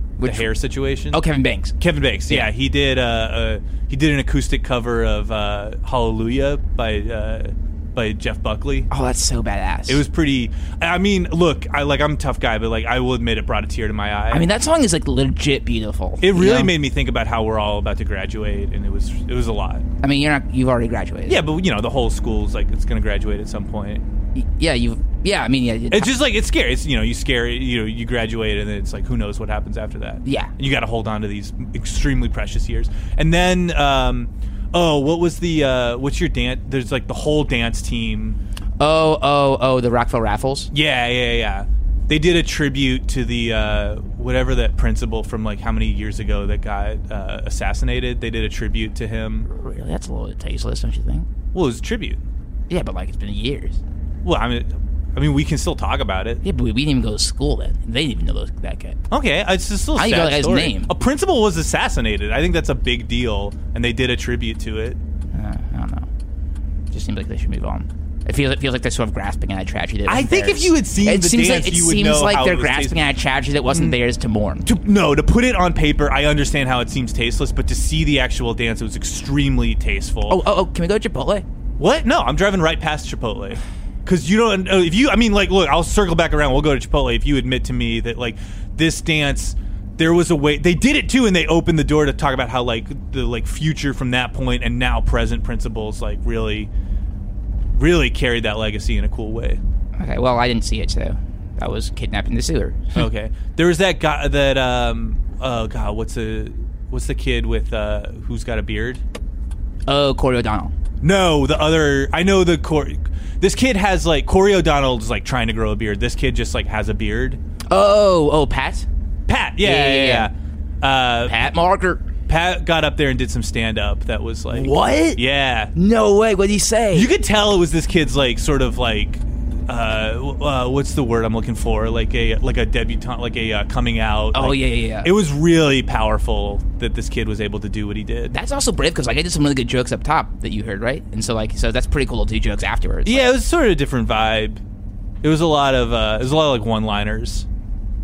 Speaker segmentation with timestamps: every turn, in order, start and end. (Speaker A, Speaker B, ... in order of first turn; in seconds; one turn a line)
Speaker A: 0.2-1.2
Speaker B: 0.2-0.5
Speaker B: 1.1-1.8
Speaker A: 1.8-8.9
Speaker B: 8.9-10.0
Speaker A: 9.9-14.4
Speaker B: 14.3-16.7
Speaker A: 16.2-19.9
Speaker B: 20.0-21.4
Speaker A: 21.3-24.0
Speaker B: 24.4-26.1
Speaker A: 25.9-38.4
Speaker B: 30.2-30.5
Speaker B: 38.8-40.7
Speaker A: 40.7-49.5
Speaker B: 49.5-51.3
Speaker A: 51.5-52.2
Speaker B: 52.7-53.8
Speaker A: 54.2-56.4
Speaker B: 56.4-59.0
Speaker A: 59.1-65.0
Speaker B: 60.0-60.9
Speaker B: 65.3-66.1
Speaker B: 66.9-74.7
Speaker A: 70.1-73.0
Speaker A: 73.7-74.0
Speaker A: 74.7-80.4
Speaker B: 80.3-81.5
Speaker A: 81.8-96.7
Speaker A: 97.7-99.6
Speaker B: 100.0-103.1
Speaker A: 103.0-109.0
Speaker B: 109.9-110.7
Speaker A: 111.0-117.4
Speaker B: 117.7-118.9
Speaker A: 119.3-121.3
Speaker B: 119.6-120.3
Speaker B: 121.2-122.1
Speaker A: 122.3-125.7
Speaker B: 124.5-125.2
Speaker B: 125.8-127.1
Speaker A: 126.9-138.3
Speaker B: 134.3-135.1
Speaker B: 138.3-143.3
Speaker A: 143.1-144.6
Speaker A: 145.2-147.5